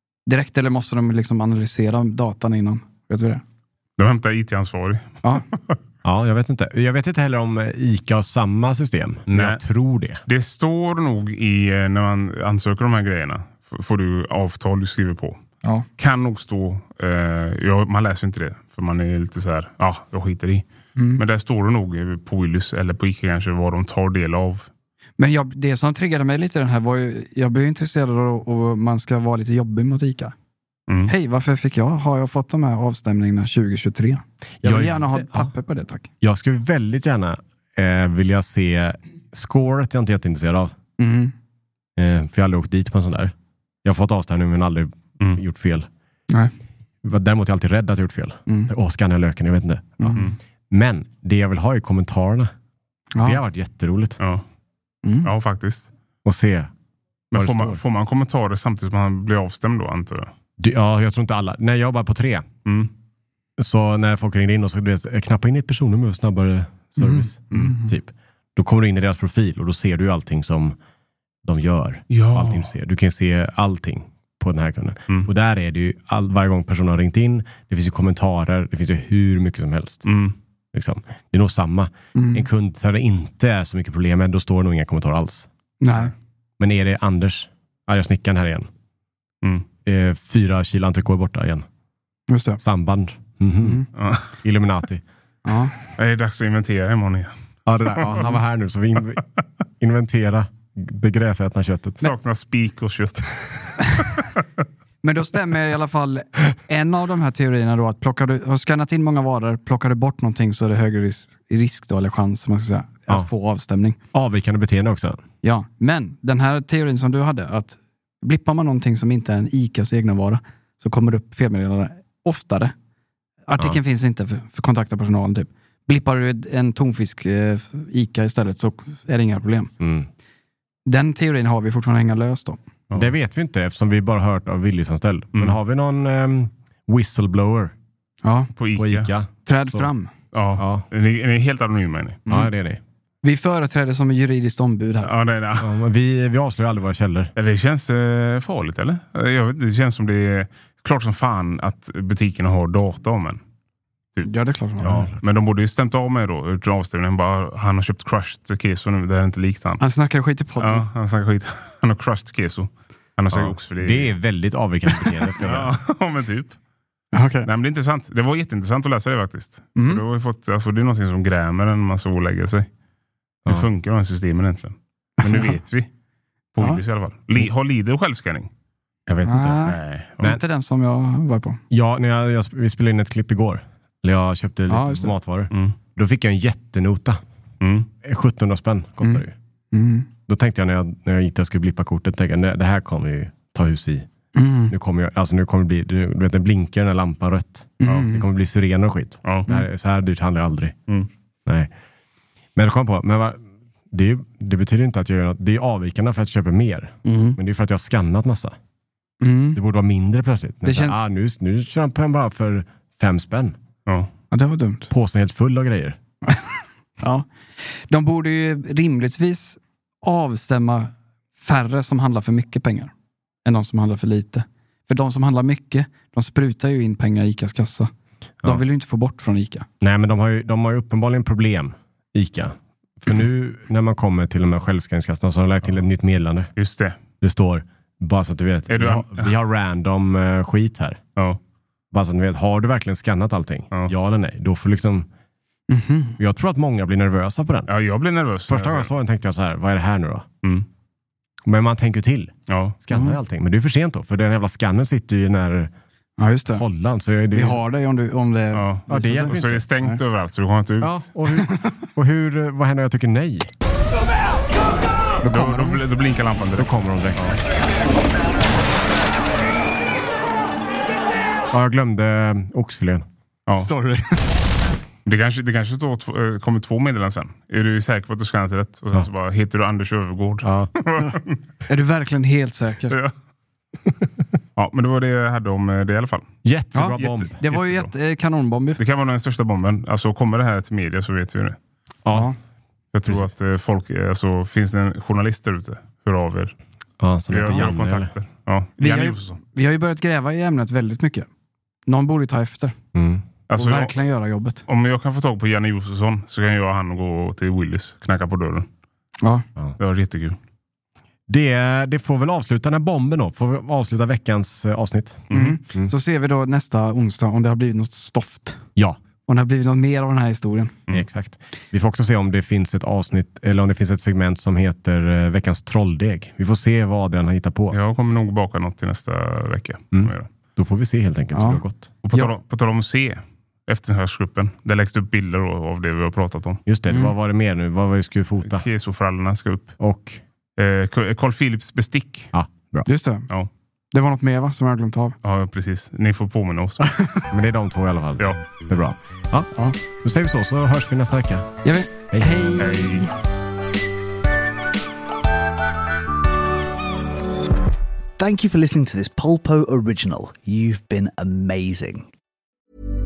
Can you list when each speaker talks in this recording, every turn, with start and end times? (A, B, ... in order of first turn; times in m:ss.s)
0:00.3-0:03.4 A
0:04.0-0:05.1 B
0:06.0-0:10.2 C
0:09.3-0:09.6 B
0:10.3-0:15.4 B
0:16.0-0:20.7 B
0:21.2-0:24.7 B
0:25.2-0:30.3 A
0:30.9-0:31.1 B
0:31.1-0:36.1 A
0:34.6-0:35.5 C
0:36.2-0:40.7 C
0:41.0-0:41.3 A
0:42.0-0:45.9 C
0:47.0-0:52.5 C
0:53.1-0:53.4 A
0:53.2-0:54.2 C
0:55.0-0:55.3 A
0:55.2-0:55.9 B
0:56.2-0:56.7 C
0:57.3-1:00.3 B
0:57.3-0:57.8 C
1:00.6-1:02.5 C
1:03.6-1:10.8 C
1:07.0-1:07.9 A
1:11.4-1:20.0 C
1:12.1-1:12.7 B
1:20.0-1:20.4 B
1:20.7-1:25.5 C
1:22.2-1:22.5 A
1:25.8-1:26.1 A
1:26.6-1:28.7 C
1:29.9-1:31.7 C
1:32.3-1:32.6 A
1:32.6-1:33.9 C
1:34.0-1:34.3 B
1:34.4-1:35.0 C
1:35.4-1:35.7 A
1:35.9-1:37.3 B
1:37.7-1:39.2 C
1:39.8-1:42.1 C
1:42.0-1:44.1 B
1:45.0-1:54.0 A
1:54.1-1:55.2 C
1:55.4-2:02.7 A
2:03.5-2:09.7 A
2:09.8-2:10.1 C
2:10.9-2:12.6 A
2:13.0-2:17.7 C
2:18.2-2:18.5 A
2:18.6-2:19.1 B
2:18.8-2:20.8 C
2:19.5-2:20.1 A
2:20.3-2:22.3 B
2:22.3-2:22.8 C
2:23.2-2:25.1 A
2:25.0-2:25.8 B
2:25.6-2:27.3 C
2:27.4-2:33.4 B
2:34.2-2:35.0 A
2:34.8-2:35.1 C
2:34.8-2:39.8 B
2:39.8-2:40.9 A
2:40.6-2:44.1 B
2:43.3-2:45.7 C
2:45.4-2:46.6 B
2:47.1-2:47.5 A
2:47.4-2:52.7 B
2:49.8-2:50.0 A
2:53.5-2:55.9 B
2:55.2-2:55.5 A
2:56.5-2:58.5 B
2:59.1-2:59.7 C
2:59.2-3:01.6 A
2:59.7-3:00.4 B
3:01.7-3:07.2 C
3:04.7-3:05.1 A
3:07.6-3:07.9 B
3:08.0-3:09.3 C
3:09.0-3:10.1 A
3:10.3-3:14.1 C
3:14.4-3:14.7 A
3:14.7-3:20.8 C
3:17.8-3:18.2 A
3:22.6-3:28.6 C
3:27.0-3:27.4 A
3:29.2-3:29.6 A
3:29.5-3:33.6 C
3:30.6-3:31.0 A
3:34.3-3:34.9 A
3:34.9-3:36.0 C
3:37.0-3:42.9 A
3:43.4-3:47.9 A
3:48.4-3:49.7 A
3:49.8-3:56.5 C
3:56.6-3:57.0 B
3:57.2-4:01.0 C
3:58.7-3:59.3 B
4:01.9-4:05.1 C
4:05.7-4:06.2 A
4:06.2-4:07.7 C
4:07.7-4:08.9 B
4:08.5-4:10.3 C
4:11.4-4:15.7 C
4:12.5-4:12.8 B
4:12.9-4:13.2 A
4:16.2-4:16.6 A
4:16.6-4:17.6 C
4:17.3-4:20.0 A
4:18.5-4:21.0 B
4:18.9-4:19.7 C
4:20.8-4:23.5 C
4:25.2-4:25.8 A
4:25.3-4:27.4 B
4:26.6-4:27.4 C
4:31.5-4:33.0 C
4:33.6-4:34.2 A
4:35.1-4:41.3 B
4:40.4-4:40.7 C
4:41.7-4:43.0 A
4:44.6-4:46.3 B
4:46.4-4:47.4 C
4:46.7-4:48.8 A
4:47.0-4:47.9 B
4:48.8-4:51.6 B
4:52.0-4:52.3 C
4:52.9-4:56.6 B
4:53.1-4:53.3 C
4:57.0-4:58.1 C
4:57.3-4:59.4 B
4:58.8-5:01.3 A
5:01.9-5:02.8 A
5:02.9-5:03.2 C
5:03.5-5:04.0 B
5:03.5-5:04.6 A
5:04.7-5:08.7 B
5:09.8-5:10.4 B
5:11.3-5:15.9 C
5:15.3-5:15.6 B
5:15.3-5:18.6 A
5:19.3-5:20.7 A
5:20.9-5:27.8 C
5:27.7-5:30.3 B
5:29.9-5:31.9 C
5:31.3-5:31.6 A
5:32.0-5:36.6 B
5:36.7-5:38.7 C
5:36.9-5:37.1 A
5:38.5-5:39.8 B
5:39.8-5:40.2 C
5:40.6-5:42.3 B
5:42.3-5:42.9 C
5:42.9-5:43.3 A
5:43.9-5:45.2 A
5:45.2-5:46.9 B
5:47.3-5:51.5 C
5:51.6-5:53.1 A
5:52.1-5:52.5 C
5:52.6-5:53.1 B
5:58.2-6:02.1 D